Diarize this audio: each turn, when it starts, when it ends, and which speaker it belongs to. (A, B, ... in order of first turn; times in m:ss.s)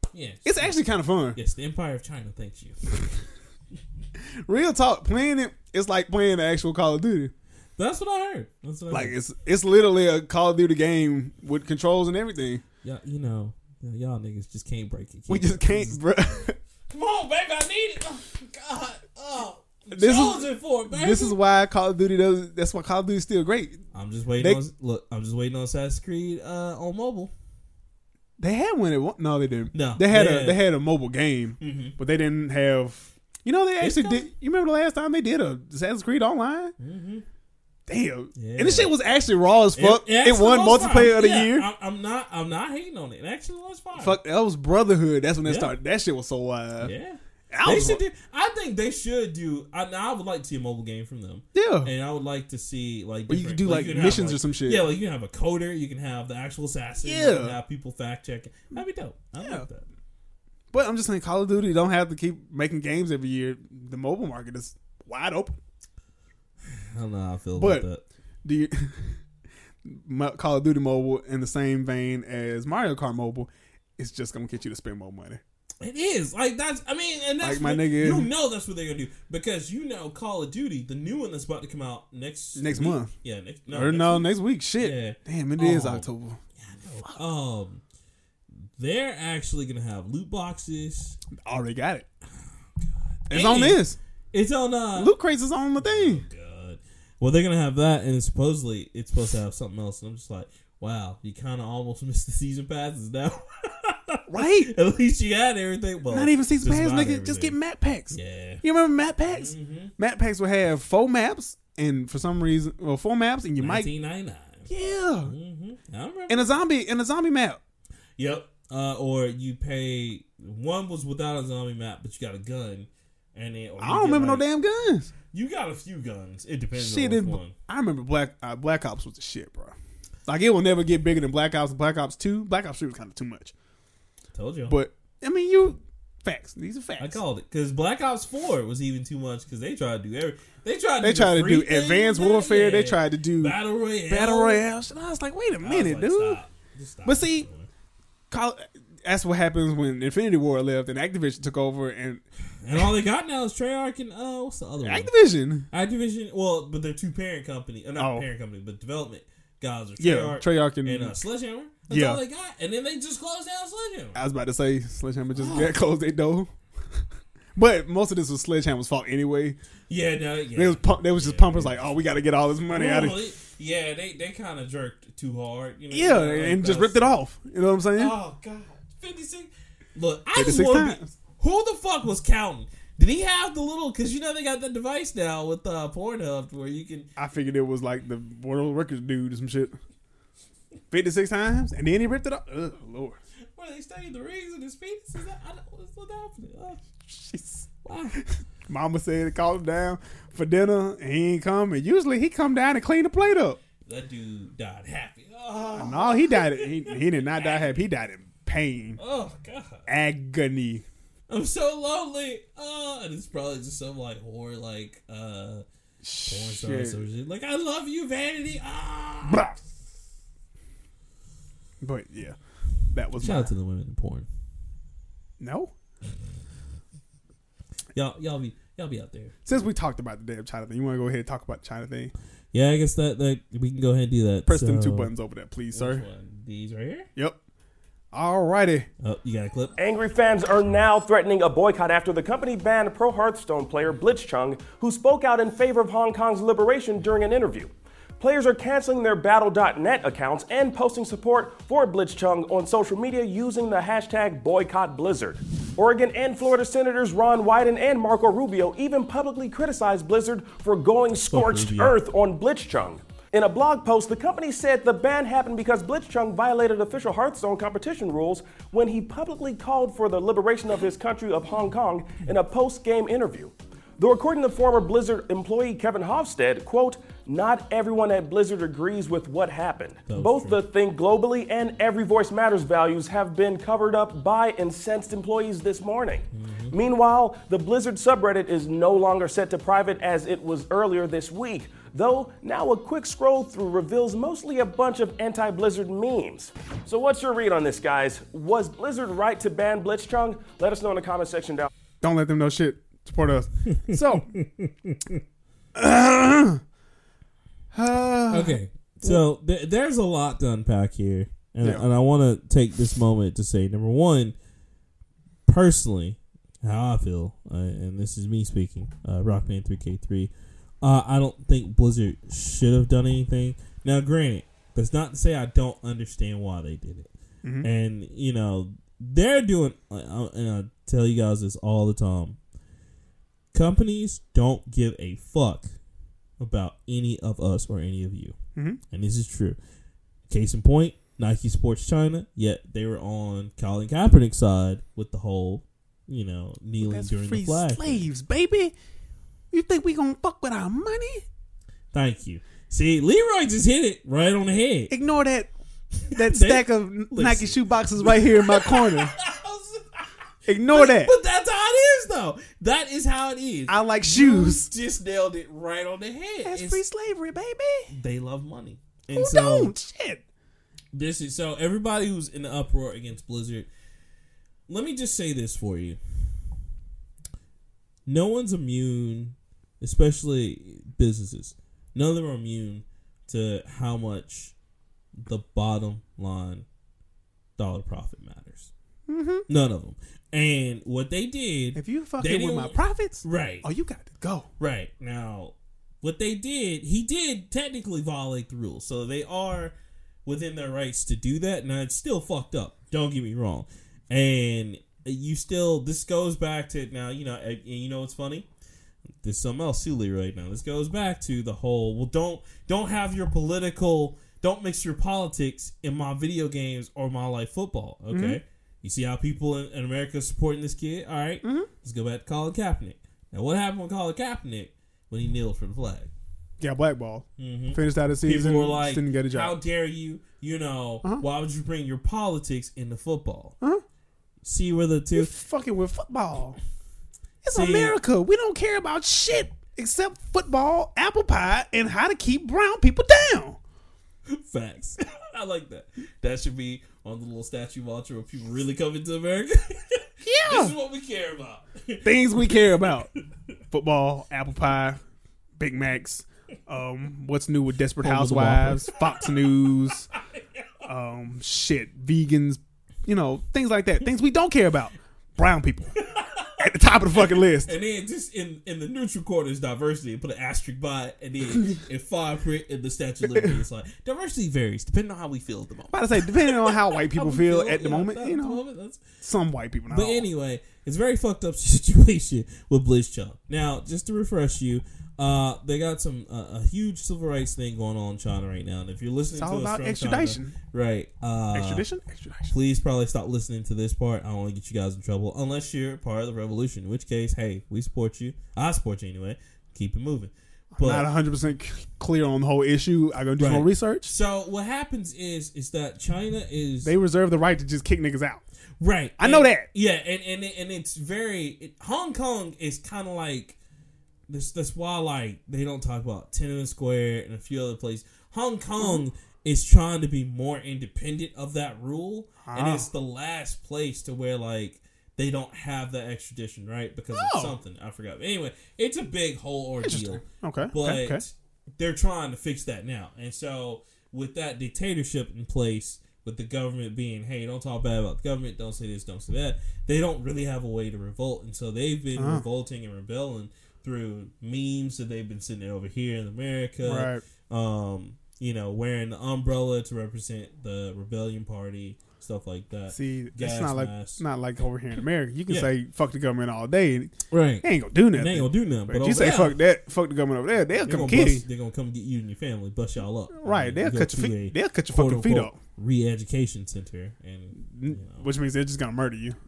0:00.1-0:00.8 A
0:00.4-0:01.4 B
0:01.3-0:02.9 A
0:04.4-0:07.3 B
0:07.8-0:09.2 A
0:08.9-0:12.6 B
0:12.8-0:16.0 A
0:15.3-0:16.6 B
0:16.9-0:21.4 A
0:19.9-0:23.8 B
0:23.9-0:27.3 A
0:28.4-0:36.7 B
0:29.7-0:30.6 A
0:31.6-0:32.0 A
0:33.8-0:34.3 A
0:36.8-0:37.2 A
0:37.9-0:41.7 B
0:38.3-0:38.9 A
0:39.7-0:44.2 A
0:44.0-0:46.9 B
0:45.4-0:45.7 A
0:46.8-0:59.8 A
0:47.5-0:48.0 B
0:51.5-0:51.9 B
0:53.3-0:54.8 B
0:57.0-0:57.6 B
0:59.4-0:59.7 B
1:00.7-1:05.6 B
1:06.7-1:08.0 A
1:07.6-1:07.9 B
1:08.4-1:09.2 B
1:09.8-1:15.4 B
1:15.8-1:26.1 A
1:17.4-1:18.3 B
1:22.6-1:23.1 B
1:23.7-1:26.4 B
1:26.6-1:27.8 A
1:28.8-1:31.2 A
1:31.4-1:32.0 B
1:32.8-1:35.1 A
1:33.3-1:34.0 B
1:35.0-1:36.2 B
1:35.8-1:47.6 A
1:44.3-1:44.7 B
1:46.1-1:53.9 B
1:48.1-1:48.6 A
1:49.3-1:49.9 A
1:53.6-1:54.7 A
1:54.7-1:55.3 B
1:55.2-1:56.5 A
1:56.3-1:57.6 B
1:58.2-2:04.4 A
2:03.8-2:05.1 B
2:05.3-2:07.5 A
2:06.7-2:13.5 B
2:14.3-2:14.8 A
2:14.7-2:17.2 B
2:17.0-2:24.6 A
2:21.0-2:26.4 B
2:25.6-2:27.7 A
2:27.0-2:27.5 B
2:28.3-2:32.2 B
2:32.6-2:35.1 A
2:34.8-2:35.7 B
2:35.7-2:44.2 A
2:38.0-2:38.2 B
2:40.0-2:41.1 B
2:41.9-2:42.2 B
2:44.1-2:46.5 B
2:45.3-2:45.8 A
2:47.6-2:49.6 B
2:49.9-2:52.0 A
2:50.5-2:53.2 B
2:52.7-2:57.0 A
2:55.9-2:58.1 B
2:57.9-3:07.1 A
3:00.3-3:01.1 B
3:07.2-3:09.7 B
3:10.9-3:13.2 B
3:13.6-3:16.8 A
3:17.0-3:17.7 B
3:17.8-3:18.2 A
3:18.7-3:23.6 B
3:23.8-3:27.7 A
3:25.8-3:29.0 B
3:29.0-3:29.9 A
3:29.9-3:30.8 B
3:31.3-3:35.6 A
3:36.0-3:37.0 B
3:36.2-3:39.5 A
3:39.3-3:39.5 B
3:41.8-3:42.4 B
3:42.9-3:43.5 B
3:43.2-3:44.3 A
3:45.4-3:45.7 B
3:47.9-3:49.4 A
3:49.4-3:52.1 B
3:52.5-3:55.1 A
3:54.4-3:56.0 B
3:55.7-3:57.1 A
3:58.1-3:58.9 B
3:59.0-3:59.7 A
3:59.8-5:01.7 C
4:21.3-4:22.0 A
4:40.1-4:40.6 A
4:46.3-4:46.7 A
5:02.0-5:04.3 B
5:03.7-5:05.2 A
5:05.7-5:06.6 B
5:07.7-5:09.2 B
5:08.3-5:14.3 A
5:15.5-5:20.3 A
5:20.8-5:27.1 A
5:27.4-5:27.7 B
5:27.6-5:32.4 A
5:33.5-5:35.7 A
5:36.4-5:38.4 A
5:38.9-5:39.6 A
5:40.3-5:48.1 A
5:46.8-5:48.7 B
5:49.5-5:51.2 B
5:51.9-5:54.9 A
5:54.9-5:55.5 B
5:56.1-6:00.1 A
5:56.1-5:59.1 B
6:00.5-6:01.1 B
6:00.6-6:06.8 A
6:03.7-6:04.7 B
6:06.4-6:07.9 B
6:07.9-6:09.7 A
6:09.1-6:10.2 B
6:10.9-6:13.7 A
6:14.7-6:16.0 A
6:18.0-6:24.5 A
6:25.2-6:26.6 A
6:27.6-6:28.7 A
6:29.1-6:29.4 B
6:29.5-6:33.7 A
6:31.7-6:34.5 B
6:34.6-6:39.7 A
6:40.2-6:48.5 A
6:49.2-7:06.1 A
6:58.1-6:58.4 B
7:01.4-7:01.7 B
7:06.6-7:09.5 B
7:07.4-7:13.6 A
7:14.4-7:15.3 A
7:15.1-7:16.6 B
7:17.4-7:23.6 B
7:17.5-7:18.0 A
7:24.3-7:32.9 A
7:30.2-7:30.7 B
7:32.0-7:33.1 B
7:33.7-7:35.0 B
7:35.6-7:40.1 B
7:38.0-7:39.5 A
7:40.1-7:40.6 A
7:40.8-7:45.9 B
7:46.0-7:46.6 A
7:46.6-7:47.7 B
7:47.1-7:59.0 A
7:55.9-7:58.6 B
7:59.2-8:00.2 B
7:59.9-8:11.8 A
8:09.4-8:10.5 B
8:11.5-8:12.5 B
8:12.5-8:21.1 A
8:20.7-8:24.1 B
8:23.4-8:26.9 A
8:26.8-8:28.4 B
8:28.8-8:33.6 A
8:29.2-8:29.7 B
8:34.3-9:14.2 A
8:42.4-8:42.9 B
8:47.1-8:47.5 B
8:49.8-8:51.2 B
9:02.2-9:02.4 B
9:06.8-9:07.2 B
9:12.9-9:21.4 B
9:17.3-9:19.6 A
9:20.8-9:28.2 A
9:23.3-9:25.6 B
9:27.6-9:29.4 B